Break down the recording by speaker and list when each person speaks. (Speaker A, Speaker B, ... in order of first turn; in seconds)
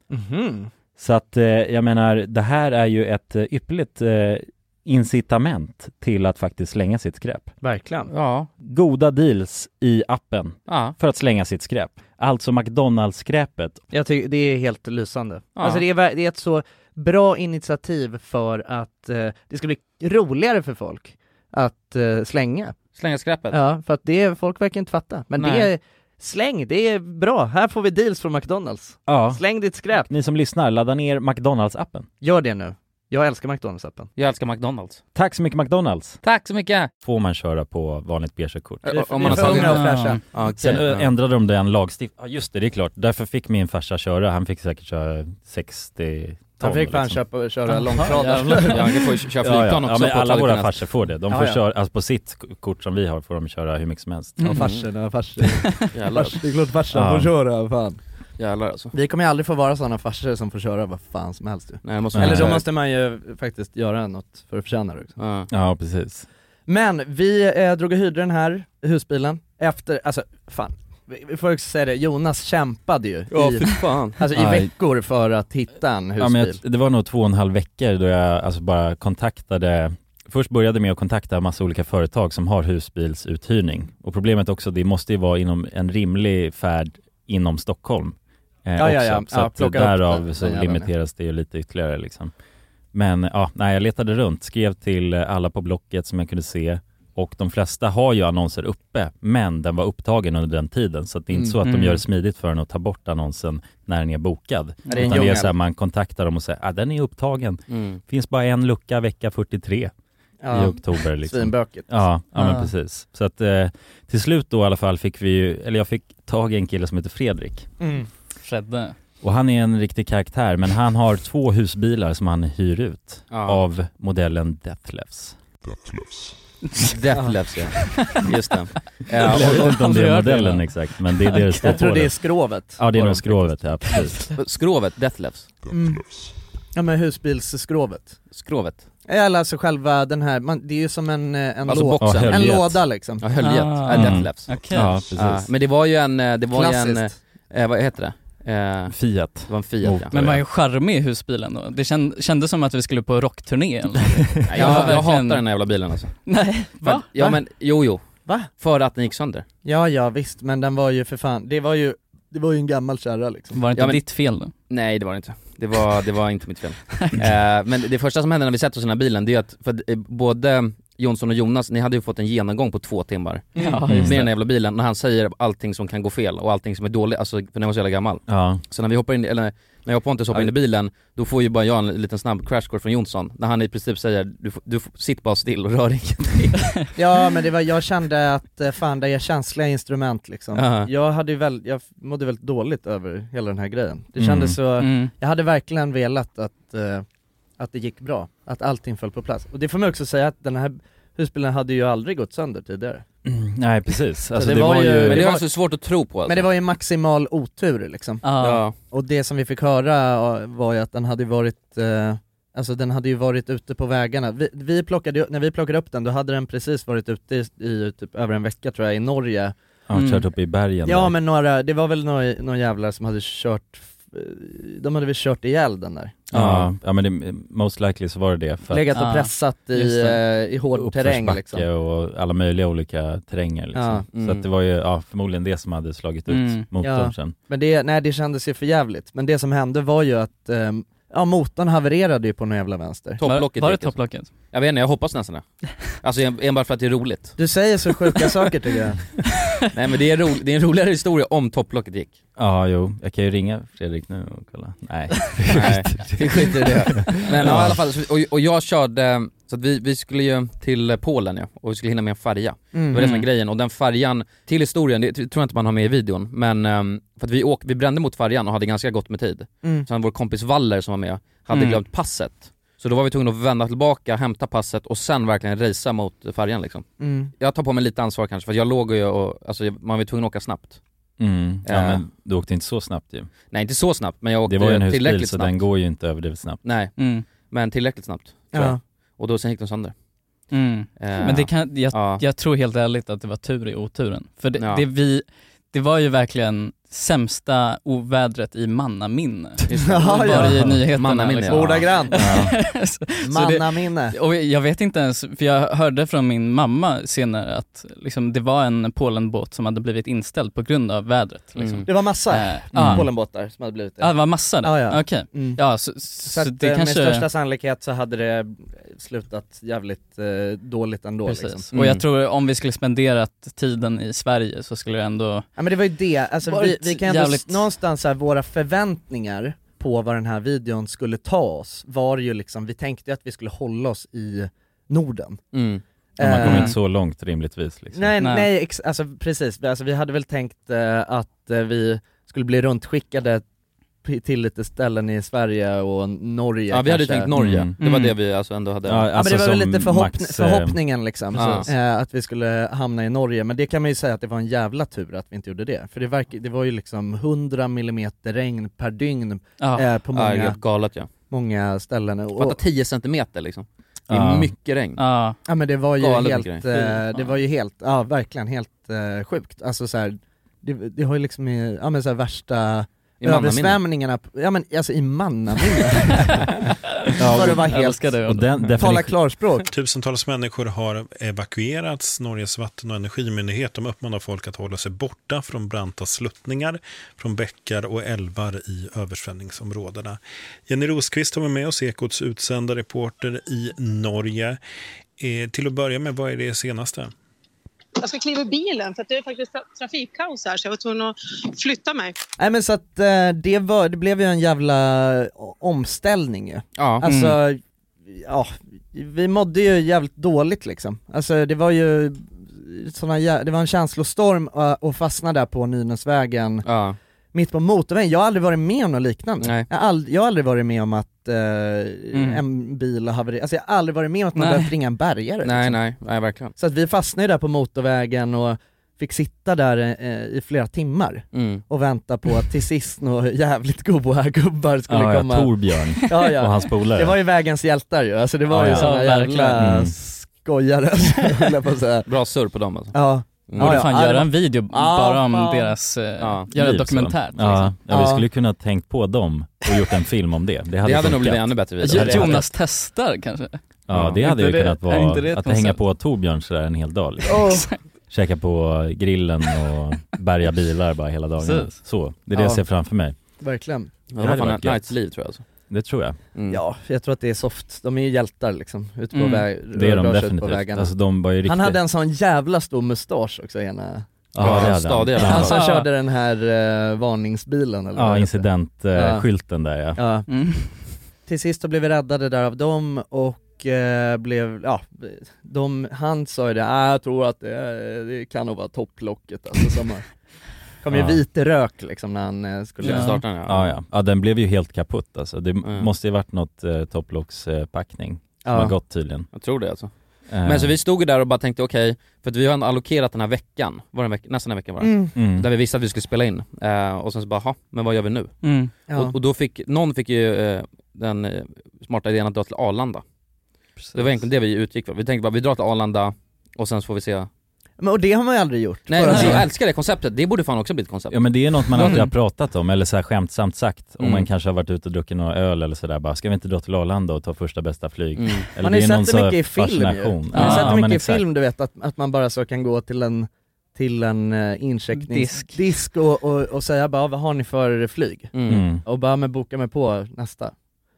Speaker A: 0.1-0.7, 7.6-8.1, 13.9-22.8, 23.5-30.1, 32.2-34.1, 38.9-40.2, 46.6-48.9, 51.3-51.6, 54.4-58.0, 58.9-65.2, 66.7-76.6, 88.8-90.9, 104.9-105.5, 110.4-112.0, 117.8-118.1, 131.6-133.2, 135.7-136.1, 136.7-138.2, 139.1-143.2, 146.5-147.1, 154.6-155.0, 159.6-163.6, 187.0-197.1, 197.6-203.0, 204.3-205.4, 206.3-208.3, 208.8-219.6, 220.8-226.2, 228.7-231.6, 233.8-234.1, 236.8-243.2, 247.4-249.1, 262.7-263.2, 277.0-277.3, 288.5-288.8, 299.8-300.8, 301.5-302.4, 303.2-304.1, 311.9-315.6, 316.3-321.7, 325.6-335.4, 336.2-336.8, 337.9-343.4, 344.0-347.3, 349.1-360.6, 361.3-362.6, 365.5-376.5, 377.2-378.1, 378.8-379.7, 402.4-416.7, 417.3-425.8, 426.6-435.5, 436.1-442.1, 442.9-445.7, 447.9-448.2, 457.3-457.6, 462.3-462.6, 463.4-463.9, 466.5-470.9, 471.4-474.7, 475.3-479.2, 480.0-480.3, 481.3-490.1, 490.8-493.1, 498.4-498.8, 504.8-505.1, 517.8-519.5, 528.6-538.3, 538.8-540.5
Speaker B: 1.0-7.5, 8.6-13.8, 29.1-29.4, 30.0-32.1, 35.1-36.2, 37.0-39.8, 40.5-47.2, 49.4-54.4, 56.9-57.3, 62.1-62.6, 65.5-66.3, 74.3-74.7, 76.2-92.3, 92.9-109.9, 110.5-117.7, 119.2-125.4, 129.2-134.3, 142.0-142.8, 143.9-145.5, 148.9-150.4, 173.9-174.2, 178.3-178.6, 194.2-194.6, 203.2-205.3, 219.9-221.1, 226.3-228.9, 230.7-237.3, 252.4-257.8, 281.2-283.3, 284.5-286.6, 302.2-302.5, 312.7-313.1, 336.2-338.1, 347.4-347.7, 348.9-350.8, 364.1-364.5, 377.2-379.1, 434.9-437.2, 438.5-438.9, 439.6-439.9, 446.5-452.5, 453.9-457.5, 458.1-463.1, 464.2-464.9, 465.7-466.2, 469.7-471.8, 474.4-475.6, 477.9-480.0, 490.9-491.2, 493.4-499.3, 500.3-500.8, 505.1-505.5, 521.1-531.3, 538.5-538.8
Speaker C: 8.1-8.5, 10.7-10.9, 15.6-15.8, 22.9-23.6, 25.4-25.7, 34.2-35.0, 36.2-36.9, 38.9-41.1, 48.5-50.8, 54.5-54.9, 55.9-56.4, 58.4-58.9, 61.8-62.6, 65.2-65.5, 73.3-74.2, 107.7-108.0, 123.3-123.6, 126.9-129.7, 134.4-135.5, 138.3-138.8, 141.7-142.6, 143.2-144.5, 145.1-150.1, 154.5-156.2, 156.8-159.4, 163.8-164.0, 164.7-186.7, 190.5-190.9, 205.1-206.5, 208.4-208.8, 226.3-226.7, 234.1-234.4, 243.2-244.0, 244.5-247.4, 249.7-252.2, 255.5-276.9, 277.4-280.8, 281.6-282.0, 283.5-285.6, 286.6-289.9, 291.0-292.2, 294.6-294.8, 299.7-301.9, 311.6-311.9, 321.7-322.0, 335.5-335.8, 346.7-349.1, 351.4-351.7, 360.1-361.1, 362.4-365.0, 366.0-367.0, 373.2-373.8, 406.8-407.0, 416.6-417.0, 419.4-419.7, 425.4-426.5, 431.3-431.6, 442.1-442.9, 443.5-443.8, 446.2-446.5, 450.8-452.4, 453.9-454.2, 464.1-465.4, 466.4-466.6, 474.4-475.6, 492.8-493.7, 499.3-499.9, 500.4-508.4, 508.9-513.0, 513.9-517.3, 518.9-522.1, 524.0-524.3, 528.1-528.5, 538.3-538.6
Speaker D: 39.3-40.2, 47.7-48.8, 101.7-102.0, 112.4-112.7, 118.4-119.0, 129.4-130.7, 131.2-131.8, 143.4-145.0, 150.1-155.5, 156.2-157.1, 163.5-164.5, 173.6-174.3, 194.8-195.1, 208.2-208.6, 219.9-220.2, 228.9-230.2, 236.3-236.7, 243.2-244.3, 271.5-271.8, 287.0-287.2, 290.5-313.1, 314.0-317.3, 321.3-325.5, 326.5-327.6, 336.4-336.7, 338.2-338.5, 347.8-348.1, 359.6-359.9, 365.0-365.4, 377.1-378.9, 407.0-407.4, 422.1-422.4, 424.4-424.7, 438.7-439.6, 443.6-447.7, 451.8-453.6, 454.2-455.8, 457.4-457.8, 461.4-461.8, 469.1-469.4, 475.3-475.9, 480.3-480.8, 492.8-493.2, 508.4-508.7, 513.8-514.2, 519.0-519.4, 521.8-522.1, 530.3-530.7, 534.9-535.6
Speaker E: 379.7-394.6, 395.2-397.1
Speaker F: 398.0-402.1